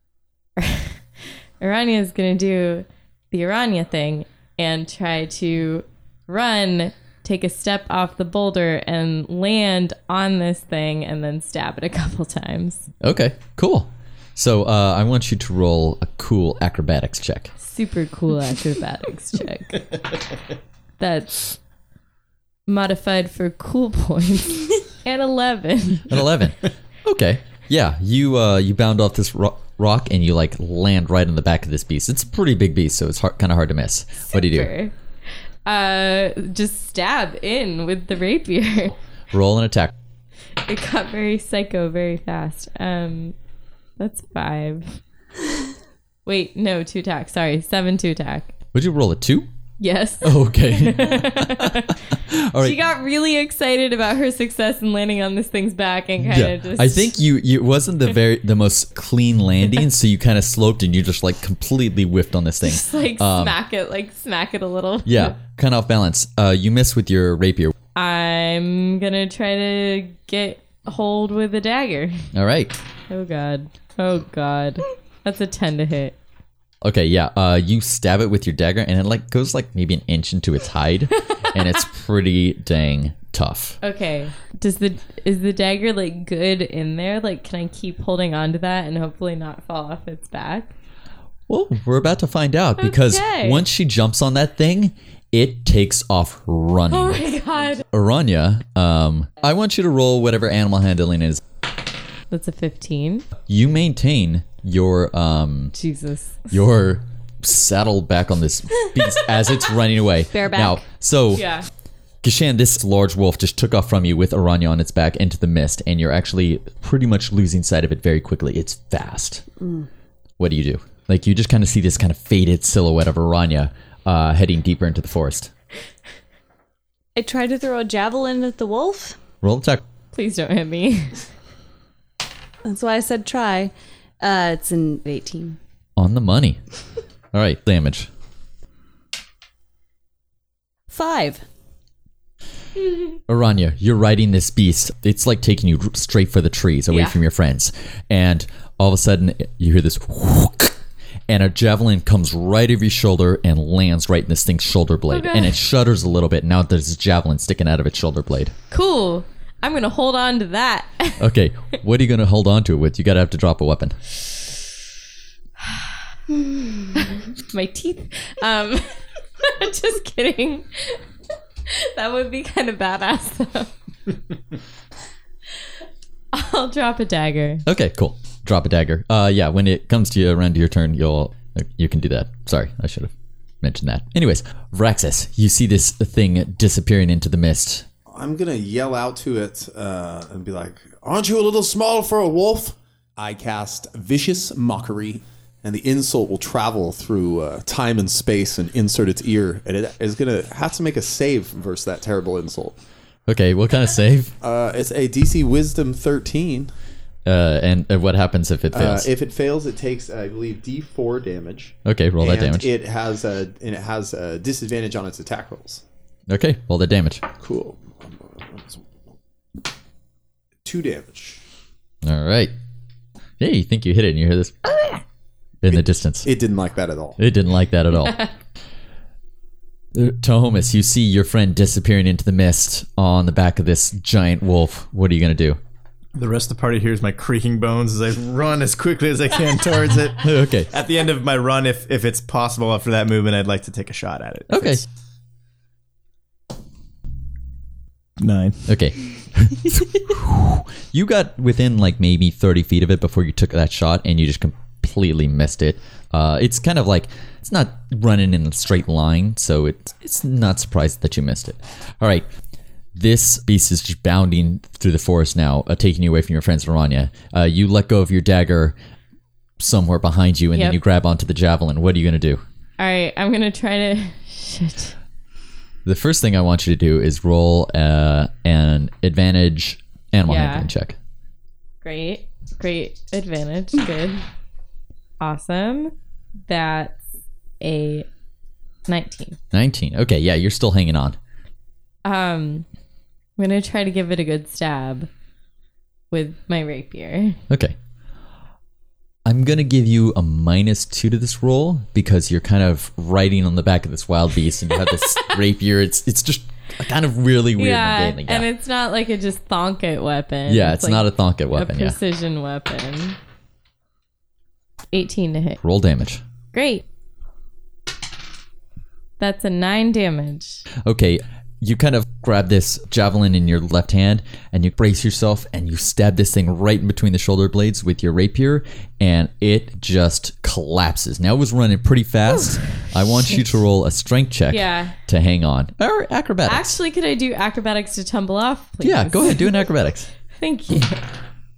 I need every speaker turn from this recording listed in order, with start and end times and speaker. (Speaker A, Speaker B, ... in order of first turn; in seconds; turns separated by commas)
Speaker A: 0.6-12.8, Speaker B: 13.0-17.5, Speaker A: 17.6-20.0, Speaker A: 21.0-21.5, Speaker A: 22.7-26.1, Speaker B: 26.1-34.7, Speaker A: 34.3-34.9, Speaker A: 35.6-38.9, Speaker B: 39.3-39.9, Speaker A: 40.6-43.3, Speaker A: 44.0-45.0, Speaker A: 46.2-48.5, Speaker B: 48.7-49.5, Speaker A: 49.8-52.0, Speaker B: 50.2-52.8, Speaker A: 52.6-57.1, Speaker B: 56.2-63.5, Speaker A: 62.6-65.3, Speaker B: 65.0-67.7, Speaker A: 68.0-72.2, Speaker B: 72.3-72.7, Speaker A: 73.1-76.2, Speaker B: 76.8-83.8, Speaker A: 83.8-90.7, Speaker B: 91.5-101.4, Speaker A: 92.8-93.6, Speaker A: 96.9-97.8, Speaker A: 102.3-103.2, Speaker B: 103.5-105.7, Speaker A: 105.7-106.4, Speaker B: 106.5-111.5, Speaker C: 110.3-110.8, Speaker A: 111.3-111.7, Speaker B: 112.2-119.4, Speaker C: 119.6-119.9, Speaker B: 120.4-125.5, Speaker C: 127.2-129.2, Speaker B: 129.4-129.8, Speaker A: 130.1-131.2, Speaker C: 132.6-135.6, Speaker B: 136.0-136.6, Speaker B: 137.3-138.1, Speaker C: 140.9-141.4, Speaker B: 143.3-150.8, Speaker B: 151.3-158.5, Speaker A: 155.1-155.5, Speaker A: 158.7-161.2, Speaker B: 161.2-164.0, Speaker A: 165.6-165.9, Speaker A: 166.9-171.0, Speaker A: 171.7-173.7, Speaker A: 176.3-177.6, Speaker B: 177.7-187.9, Speaker D: 188.1-202.8, Speaker B: 203.3-204.3, Speaker D: 204.4-206.7, Speaker B: 207.2-209.1, Speaker D: 208.7-215.8, Speaker B: 211.8-212.7, Speaker B: 216.3-217.2, Speaker D: 217.4-218.8, Speaker D: 220.6-221.4, Speaker B: 222.0-222.5, Speaker B: 223.4-225.0, Speaker B: 225.6-226.3, Speaker D: 225.7-227.2, Speaker B: 227.2-228.3, Speaker B: 229.9-235.6, Speaker E: 236.1-244.8, Speaker B: 240.2-240.7, Speaker B: 244.5-244.8, Speaker E: 248.2-248.7, Speaker B: 248.7-262.3, Speaker B: 262.9-268.8, Speaker B: 269.6-272.4, Speaker A: 272.8-274.9, Speaker B: 275.8-280.9, Speaker A: 280.2-280.7, Speaker A: 281.8-284.2, Speaker A: 285.2-285.9, Speaker A: 286.5-287.0, Speaker A: 287.6-288.1, Speaker A: 288.9-289.4, Speaker B: 289.5-291.2, Speaker A: 292.0-292.7, Speaker A: 293.4-295.1, Speaker A: 296.1-297.4, Speaker B: 297.5-297.8, Speaker B: 299.2-308.5, Speaker A: 307.6-313.2, Speaker B: 310.5-312.0, Speaker A: 314.9-315.6, Speaker B: 315.6-316.2, Speaker A: 316.5-316.8, Speaker A: 319.2-320.6, Speaker B: 320.8-336.8, Speaker A: 334.5-334.9, Speaker A: 336.4-339.6, Speaker B: 338.8-340.1, Speaker A: 340.4-341.0